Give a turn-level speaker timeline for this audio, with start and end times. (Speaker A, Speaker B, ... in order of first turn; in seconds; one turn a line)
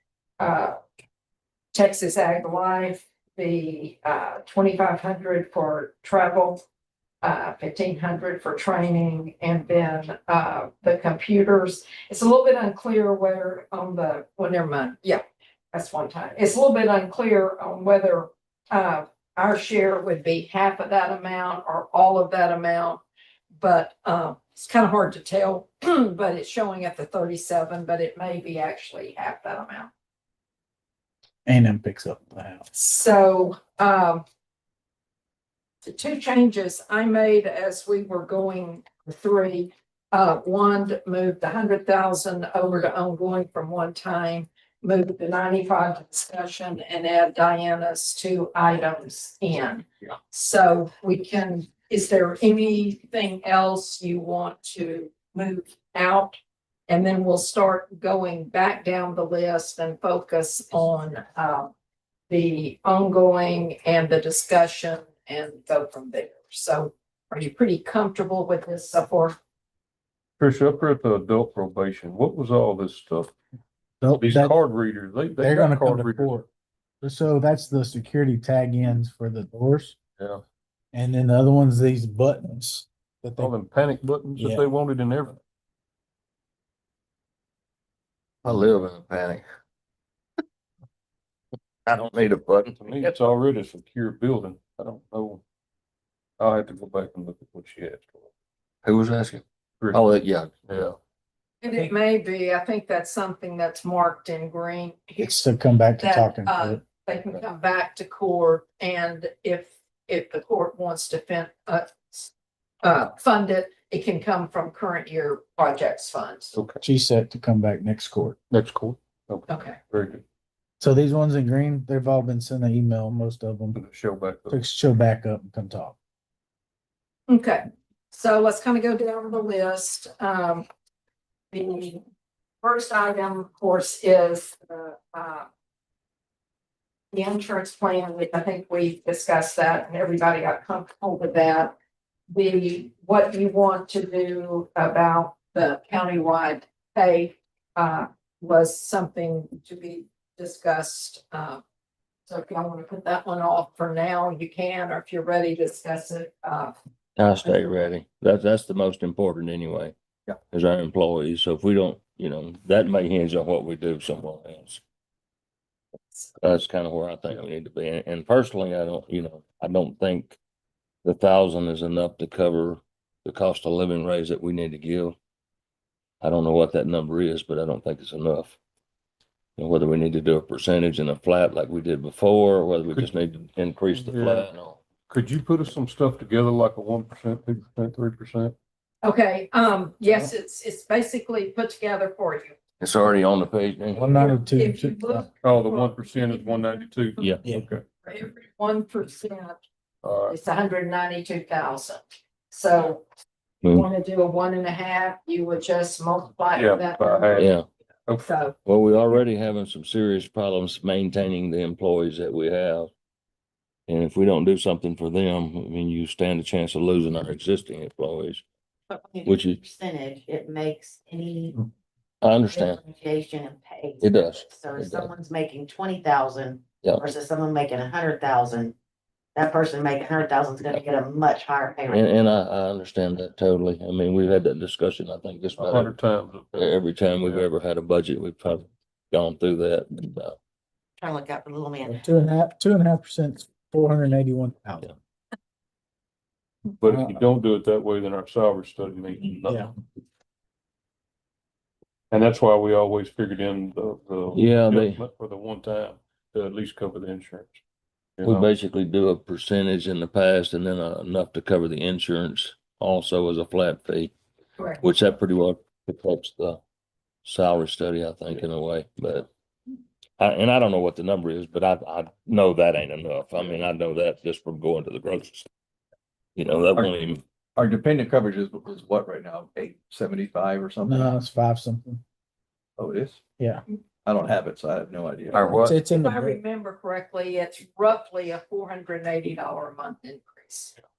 Speaker A: 0.4-0.8
Speaker A: 1.7-6.6
Speaker A: 7.2-15.2
Speaker A: 15.7-29.9
Speaker B: 31.4-32.6
Speaker A: 32.7-34.2
Speaker A: 35.8-56.4
Speaker A: 56.9-61.7
Speaker A: 62.3-69.4
Speaker C: 70.4-73.3
Speaker B: 74.0-74.6
Speaker C: 74.2-76.3
Speaker B: 75.4-76.5
Speaker B: 77.0-80.0
Speaker B: 80.9-83.5
Speaker C: 83.4-85.4
Speaker B: 84.3-84.6
Speaker D: 88.4-89.4
Speaker D: 91.9-93.2
Speaker C: 92.8-95.4
Speaker C: 96.4-98.3
Speaker D: 98.8-100.6
Speaker C: 99.8-100.0
Speaker C: 100.7-101.0
Speaker A: 101.6-105.4
Speaker B: 105.2-106.8
Speaker A: 106.0-112.3
Speaker A: 112.8-116.5
Speaker C: 116.5-116.8
Speaker B: 116.8-118.4
Speaker C: 118.5-120.2
Speaker A: 119.5-119.8
Speaker B: 120.8-123.8
Speaker C: 123.7-124.6
Speaker B: 124.5-126.0
Speaker A: 127.3-130.7
Speaker A: 131.5-132.0
Speaker A: 132.6-135.5
Speaker A: 137.1-141.8
Speaker A: 142.3-151.6
Speaker A: 152.3-156.7
Speaker D: 157.2-159.9
Speaker D: 160.5-164.8
Speaker D: 166.4-170.4
Speaker D: 171.0-175.2
Speaker D: 176.2-178.6
Speaker D: 179.6-184.8
Speaker C: 183.9-184.5
Speaker C: 185.1-188.5
Speaker A: 189.0-192.5
Speaker D: 192.8-194.2
Speaker B: 193.9-195.3
Speaker A: 194.1-196.6
Speaker C: 195.4-197.8
Speaker D: 197.2-197.4
Speaker A: 198.0-199.6
Speaker C: 200.0-200.4
Speaker A: 200.3-203.0
Speaker D: 203.6-203.9
Speaker A: 203.7-207.5
Speaker C: 206.6-207.5
Speaker D: 207.4-207.7
Speaker A: 208.2-208.5
Speaker D: 208.6-212.9
Speaker D: 213.9-218.4
Speaker E: 218.9-221.7
Speaker D: 219.2-219.6
Speaker D: 222.2-222.8
Speaker E: 222.5-228.8
Speaker D: 224.0-225.1
Speaker E: 229.3-232.0
Speaker D: 231.9-235.9
Speaker C: 235.5-237.5
Speaker D: 236.5-240.4
Speaker E: 241.0-242.0
Speaker B: 241.8-244.9
Speaker C: 246.8-249.7
Speaker B: 246.8-247.2
Speaker C: 252.1-257.6
Speaker D: 254.3-255.0
Speaker C: 258.2-258.5
Speaker D: 258.2-264.1
Speaker D: 264.8-266.6
Speaker D: 267.2-269.3
Speaker D: 270.2-275.5
Speaker D: 276.4-277.2
Speaker F: 277.6-281.1
Speaker B: 280.9-282.0
Speaker F: 282.8-283.2
Speaker B: 283.4-283.6
Speaker F: 284.1-285.6
Speaker D: 285.3-285.8
Speaker A: 285.4-290.7
Speaker B: 285.5-286.4